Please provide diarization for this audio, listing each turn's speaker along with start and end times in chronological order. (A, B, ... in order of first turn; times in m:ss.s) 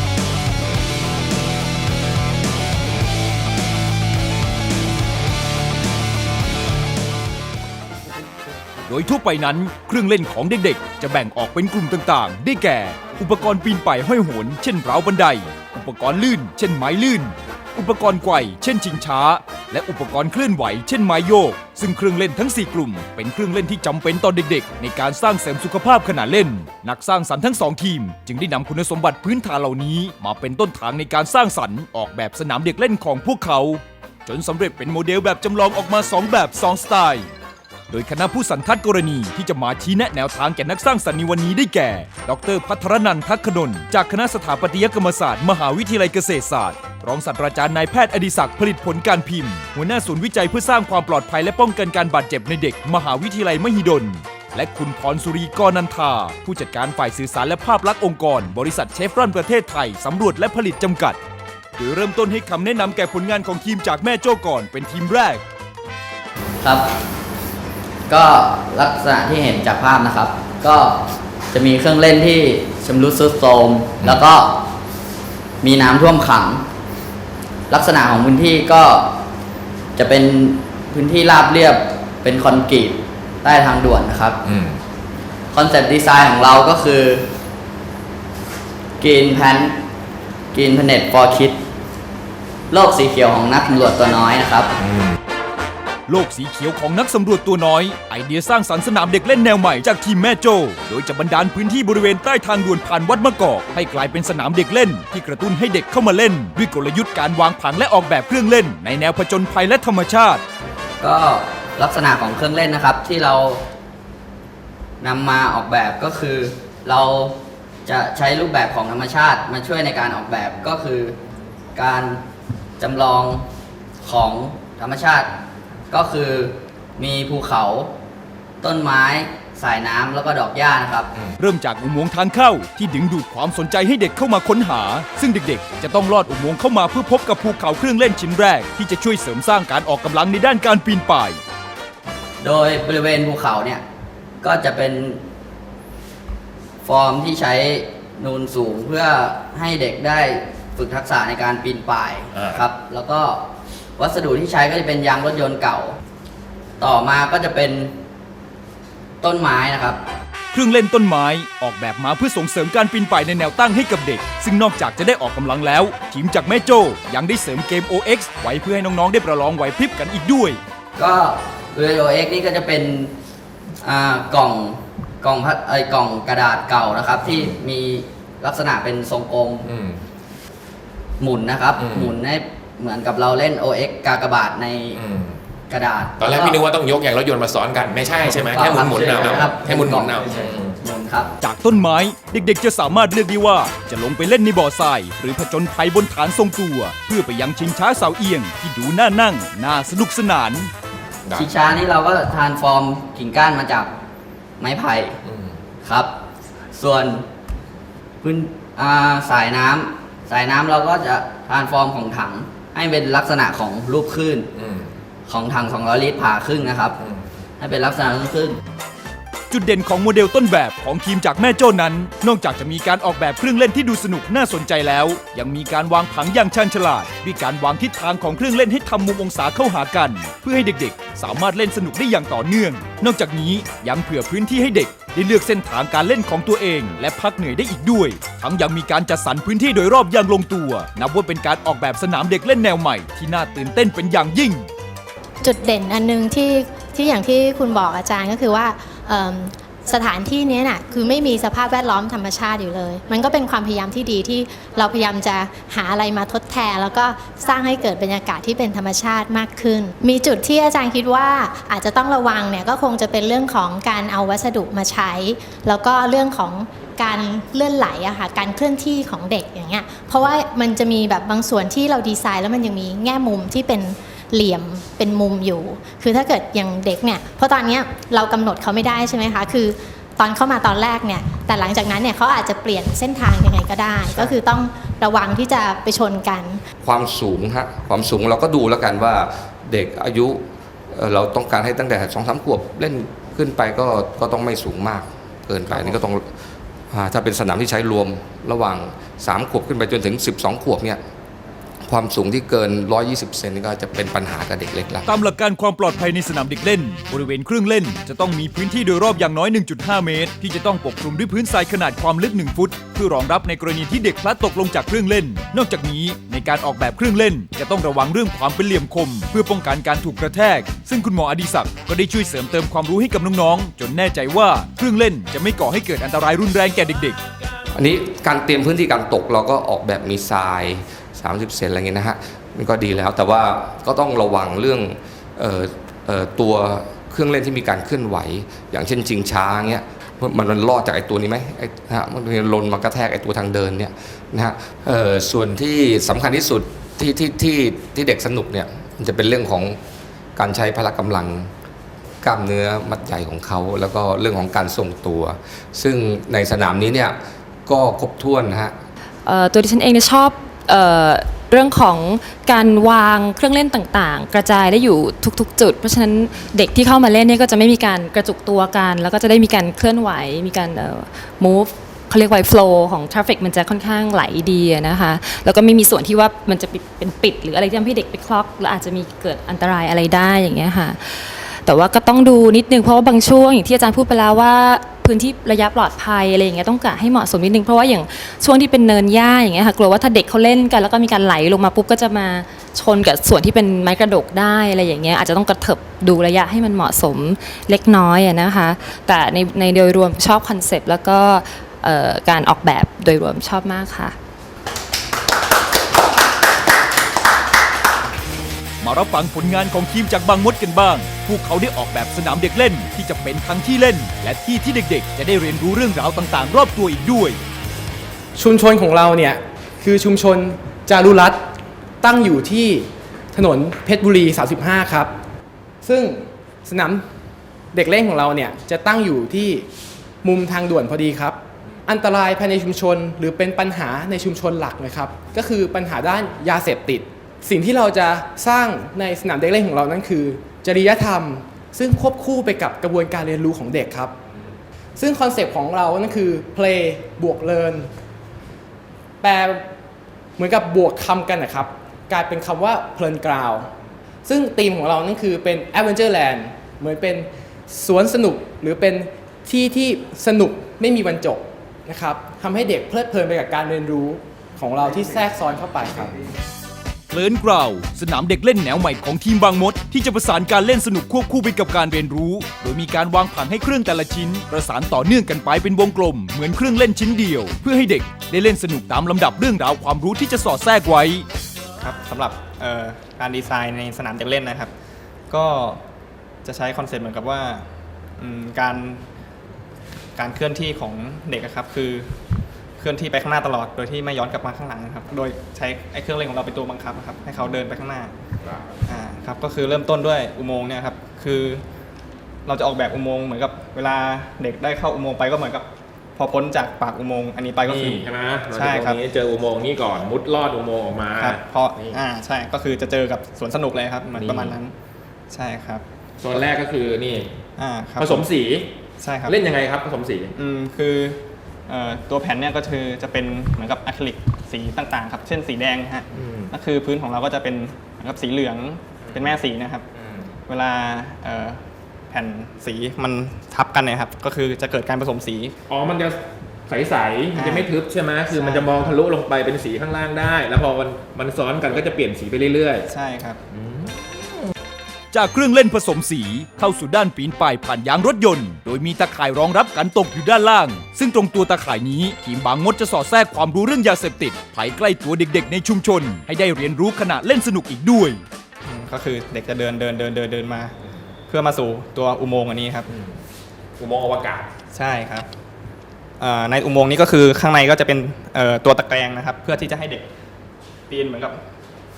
0:08.9-0:37.3 A
0:37.9-1:01.2 A
1:01.8-1:05.4 A
1:06.6-1:06.9 B
1:08.1-1:11.0 B
1:11.5-1:14.6 B
1:15.6-1:16.6 B
1:17.7-1:19.1 B
1:20.0-1:24.4 B
1:24.5-1:24.8 C
1:25.5-1:27.3 B
1:29.0-1:29.8 B
1:30.5-1:31.6 B
1:32.7-1:34.7 B
1:34.8-1:35.1 C
1:36.1-1:50.4 A
1:51.0-1:53.6 B
1:55.0-2:01.2 B
2:01.7-2:02.2 B
2:02.8-2:03.5 B
2:04.0-2:05.3 B
2:05.9-2:07.9 B
2:08.6-2:11.1 B
2:11.4-2:21.4 A
2:22.4-2:23.8 B
2:24.4-2:25.2 B
2:26.8-2:33.4 B
2:32.3-2:32.6 C
2:34.0-2:36.0 B
2:36.8-2:37.9 B
2:39.2-2:40.0 B
2:40.5-2:50.6 A
2:51.0-2:53.1 B
2:53.8-2:59.7 B
2:57.3-2:57.6 C
2:59.6-3:00.0 C
3:01.2-3:05.0 B
3:01.8-3:02.2 C
3:04.9-3:05.4 C
3:05.7-3:06.7 B
3:06.2-3:10.8 C
3:08.2-3:11.3 B
3:11.4-3:20.7 A
3:21.3-3:21.8 C
3:21.4-3:23.9 B
3:24.6-3:25.2 B
3:25.2-3:25.6 C
3:25.8-3:26.1 B
3:26.7-3:27.2 B
3:28.2-3:34.5 B
3:34.5-3:34.9 C
3:35.3-3:37.0 B
3:37.0-3:37.2 C
3:37.6-3:38.6 B
3:39.5-4:04.7 A
4:05.4-4:46.6 D
4:46.8-4:56.3 E
4:56.9-5:01.0 E
5:01.9-5:05.1 E
5:05.1-5:27.2 A
5:27.8-5:49.8 E
5:50.4-5:51.5 E
5:52.2-5:58.8 E
5:59.2-6:44.2 F
6:48.8-6:57.4 A
6:58.4-7:01.4 G
7:02.0-7:05.1 G
7:05.8-7:07.0 G
7:07.7-7:09.7 G
7:10.2-7:24.1 G
7:25.0-7:27.9 G
7:29.2-7:29.6 G
7:30.4-7:33.7 G
7:34.3-7:46.2 G
7:47.1-8:01.2 A
8:01.8-8:04.7 H
8:05.3-8:05.8 H
8:06.4-8:07.6 H
8:08.2-8:09.0 H
8:10.2-8:12.1 H
8:12.8-8:18.1 H
8:18.9-8:21.6 H
8:22.5-8:25.6 H
8:26.2-8:28.0 H
8:27.6-8:32.1 C
8:28.6-8:29.0 H
8:31.2-8:34.6 H
8:34.1-8:34.7 C
8:35.3-8:35.8 H
8:36.2-8:37.3 C
8:37.6-8:38.2 H
8:38.0-8:40.4 C
8:40.4-8:41.2 H
8:41.7-8:46.0 H
8:46.1-8:46.6 C
8:46.6-8:48.8 H
8:49.0-8:50.2 C
8:49.3-8:49.8 H
8:50.5-8:51.6 H
8:52.1-8:55.5 H
8:55.7-9:02.9 C
8:57.4-8:57.6 H
8:58.3-8:58.9 H
9:02.9-9:03.4 H
9:03.6-9:04.0 C
9:05.1-9:18.2 A
9:18.7-9:20.7 H
9:21.3-9:22.8 H
9:23.8-9:24.5 C
9:24.8-9:25.3 H
9:26.2-9:30.0 H
9:30.9-9:31.4 H